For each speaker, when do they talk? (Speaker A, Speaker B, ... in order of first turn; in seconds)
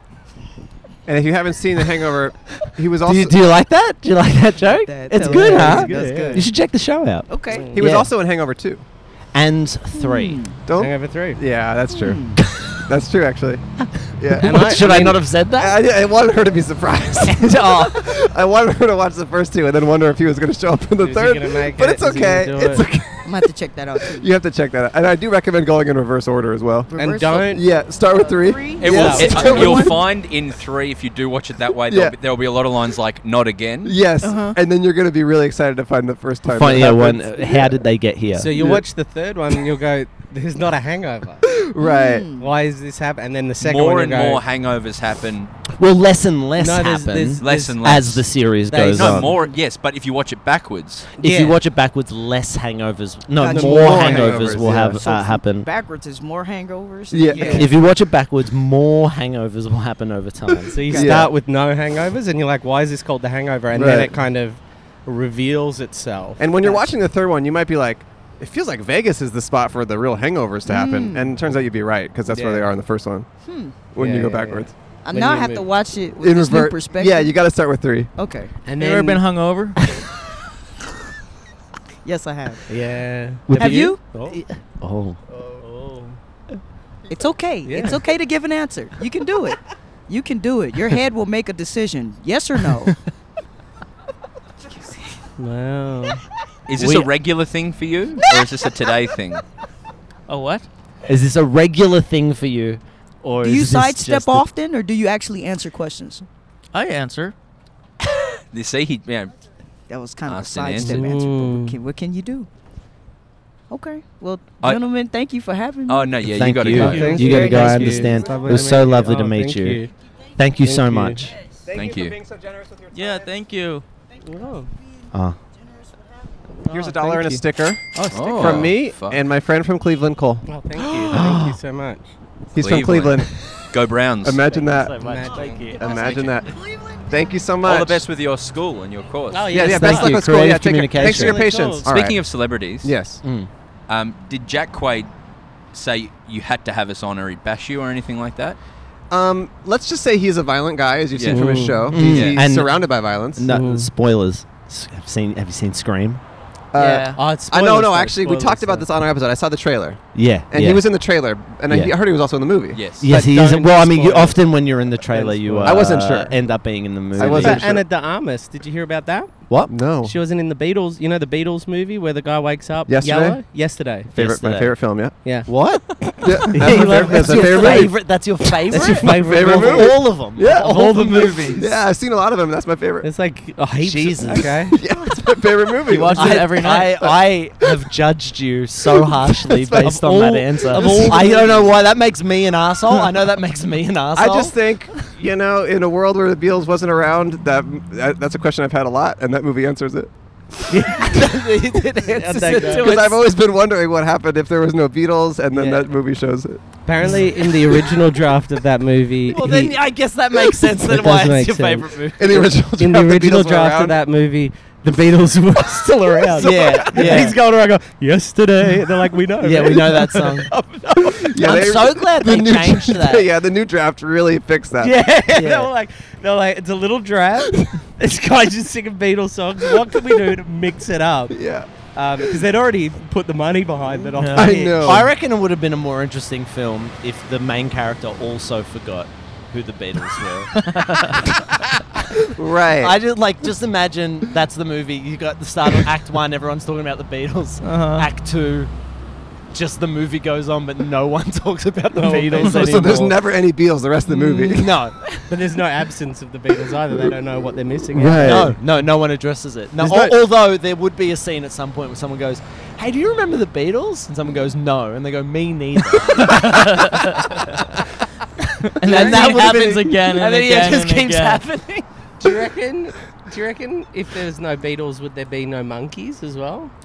Speaker A: 1.1-3.4, 7.7-8.8, 10.7-26.9, 27.4-30.0, 31.9-32.2, 33.8-37.8, 38.5-38.8, 41.5-42.3, 53.5-55.0, 57.1-57.7, 60.9-61.3, 63.7-64.2, 66.4-73.3, 73.9-74.7, 76.2-78.1, 121.7-123.3, 126.7-130.5, 132.6-133.3, 134.2-138.0, 139.5-142.3, 142.8-143.2, 149.1-153.5, 156.7-162.9, 165.6-166.4, 167.2-167.8, 169.7-170.2, 172.9-173.4, 174.2-175.2, 176.2-178.0, 178.8-181.0, 181.5-183.1, 184.3-187.2, 188.9-191.6, 194.1-201.2, 202.6-207.8, 212.2-214.0, 216.3-217.3, 221.2-225.0, 231.3-231.7, 234.3-235.1, 242.3-242.9, 252.5-254.7, 257.9-258.6, 259.8-260.1, 268.9-269.9
Speaker B: 3.0-8.1, 9.3-10.5, 12.4-12.7, 14.3-15.8, 36.5-38.7, 45.8-49.4, 51.2-55.7, 57.5-61.0, 83.5-85.2, 96.8-97.1, 101.1-104.5, 116.3-119.8, 120.4-121.3, 125.1-125.4, 131.1-131.6, 134.7-136.2, 139.5-141.5, 143.2-143.5, 151.9-152.8, 153.3-156.2, 160.2-160.9, 161.7-161.9, 163.0-167.7, 169.5-169.8, 174.1-174.8, 175.5-181.7, 183.8-184.7, 186.1-194.6, 201.0-203.2, 205.5-205.8, 209.3-212.7, 216.3-217.4, 219.4-220.6, 221.4-223.3, 225.1-225.7, 234.4-240.6, 242.8-248.7, 249.5-253.2, 254.1-255.4, 258.1-267.3, 268.8-271.9
Speaker C: 4.6-6.5, 7.3-7.8, 9.9-10.6, 11.9-12.4, 23.2-24.3, 26.9-30.0, 34.2-34.6, 41.8-42.5, 53.4-54.3, 55.0-57.8, 60.8-61.2, 70.7-71.3, 73.5-73.8, 75.0-77.4, 78.2-78.5, 82.0-82.7, 83.6-84.0, 87.1-93.0, 98.4-98.7, 103.4-106.3, 109.9-112.5, 113.7-116.3, 117.2-118.1
Speaker D: 5.2-6.5, 7.5-7.8, 10.7-11.4, 14.4-15.2, 21.0-22.9, 27.0-27.6, 28.9-29.9, 38.3-41.4, 42.4-44.4, 46.6-47.8, 48.5-49.5, 51.2-51.5, 53.5-54.6, 57.3-57.7, 60.7-66.7, 72.3-72.7, 74.0-75.7, 78.7-79.2, 82.7-84.4, 85.5-86.2, 87.7-88.0, 95.4-96.2, 110.8-111.8, 116.8-119.9, 120.6-121.3, 124.2-124.7, 126.6-127.4, 128.0-128.7, 130.5-132.1, 135.0-135.8, 139.3-140.3, 141.0-141.9, 151.3-151.9, 153.5-153.9, 157.1-158.9, 163.1-166.0, 167.2-174.1, 175.2-177.9, 178.7-181.6, 183.0-184.8, 189.9-190.2, 190.7-191.6, 200.7-201.3, 202.1-203.1, 206.9-209.8, 210.4-212.0, 212.6-221.6, 224.8-235.1, 252.0-253.0, 255.3-258.5, 272.2-276.7
Speaker E: 28.8-34.0, 43.6-45.5, 47.4-48.3, 48.8-51.1, 96.7-99.4, 108.5-109.3, 110.3-111.1, 115.9-117.4, 121.7-122.2, 128.1-129.2, 132.6-134.4, 137.6-139.6, 141.8-142.9, 143.9-145.1, 145.7-148.6, 151.2-152.4, 162.7-163.1
Speaker F: 78.8-79.8, 100.3-100.7, 106.7-107.3, 122.9-123.8, 156.8-157.2, 185.9-187.0, 190.7-191.1, 234.2-234.7, 240.6-241.2, 247.6-248.1, 252.3-252.7, 266.3-267.4, 268.7-271.4